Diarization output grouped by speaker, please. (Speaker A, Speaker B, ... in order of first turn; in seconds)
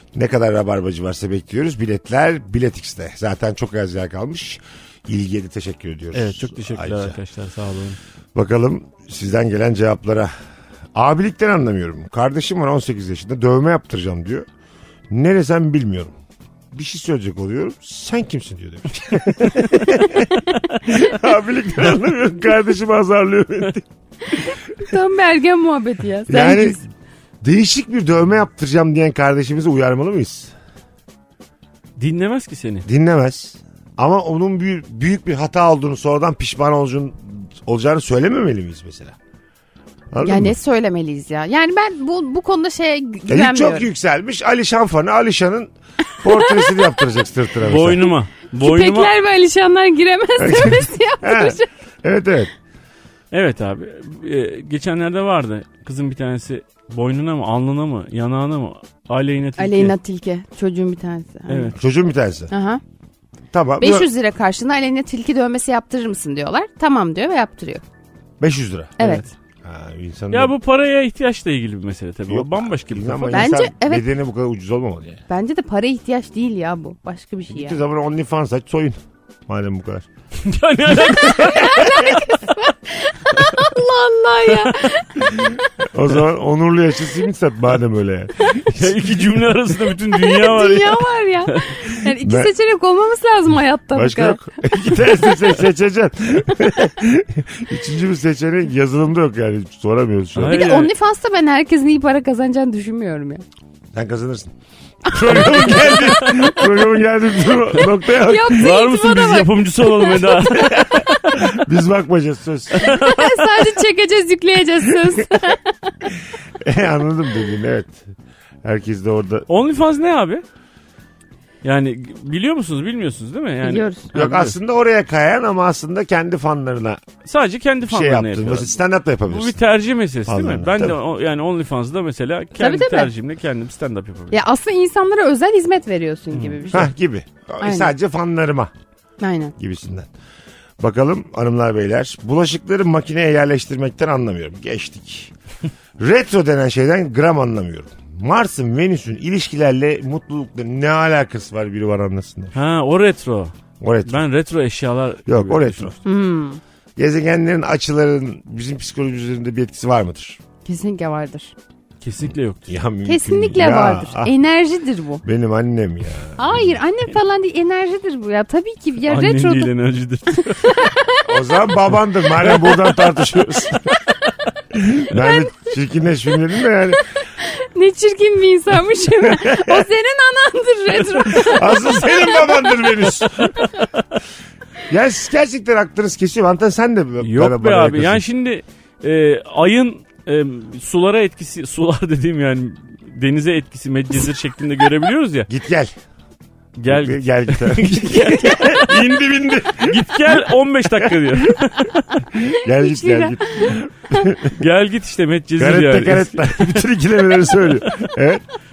Speaker A: 0.1-7.2, 8.3-10.3, 10.9-14.5, 15.1-16.1, 16.7-23.9, 26.3-26.8, 27.4-30.5, 32.9-39.1, 40.1-40.6, 43.3-48.1, 50.4-52.5, 61.7-62.5, 63.5-64.1, 68.4-70.5, 72.3-75.2, 77.5-80.0, 85.8-89.3, 92.2-92.5, 93.9-100.6, 103.9-104.5, 105.0-108.7, 110.5-113.0, 116.6-118.1, 118.6-119.5, 124.1-127.0, 127.9-129.6, 130.2-131.0, 136.7-138.7, 139.6-140.1, 140.8-145.3, 146.0-152.6, 153.8-154.2, 155.2-155.9, 157.0-160.4, 162.7-164.3, 165.2-166.7, 171.2-173.8, 174.7-177.0, 179.2-179.9, 181.3-183.6, 184.9-188.2, 195.5-195.9, 196.9-201.5, 202.3-204.6, 205.6-208.4
Speaker B: 6.1-8.0, 32.0-32.9, 47.6-49.1, 53.3-59.9, 61.5-61.7, 70.3-73.5, 80.4-82.2, 88.7-91.7, 100.3-100.9, 108.5-111.5, 112.8-113.7, 119.5-120.4, 121.6-124.5, 127.2-128.7, 129.3-134.4, 136.3-136.6, 152.5-153.5, 154.1-155.9, 162.0-162.8, 169.1-170.9, 181.1-181.5, 183.4-183.9, 187.2-195.5, 196.8-199.1, 199.8-202.0, 204.5-206.9
Speaker C: 24.3-26.8, 40.2-43.9, 46.2-46.8, 48.6-51.7, 59.6-61.7, 62.5-62.8, 63.8-67.8, 69.0-69.2, 73.3-74.1, 75.3-77.8, 81.0-85.6, 90.0-94.4, 100.5-103.4, 105.1-106.4, 108.1-111.1, 112.8-116.1, 123.6-124.1, 132.6-133.1, 134.3-136.9, 137.6-137.9, 139.2-139.5, 156.0-156.6, 160.6-161.5, 163.1-165.2, 166.4-169.7, 170.4-171.7, 175.2-175.5, 177.3-182.7, 202.7-203.8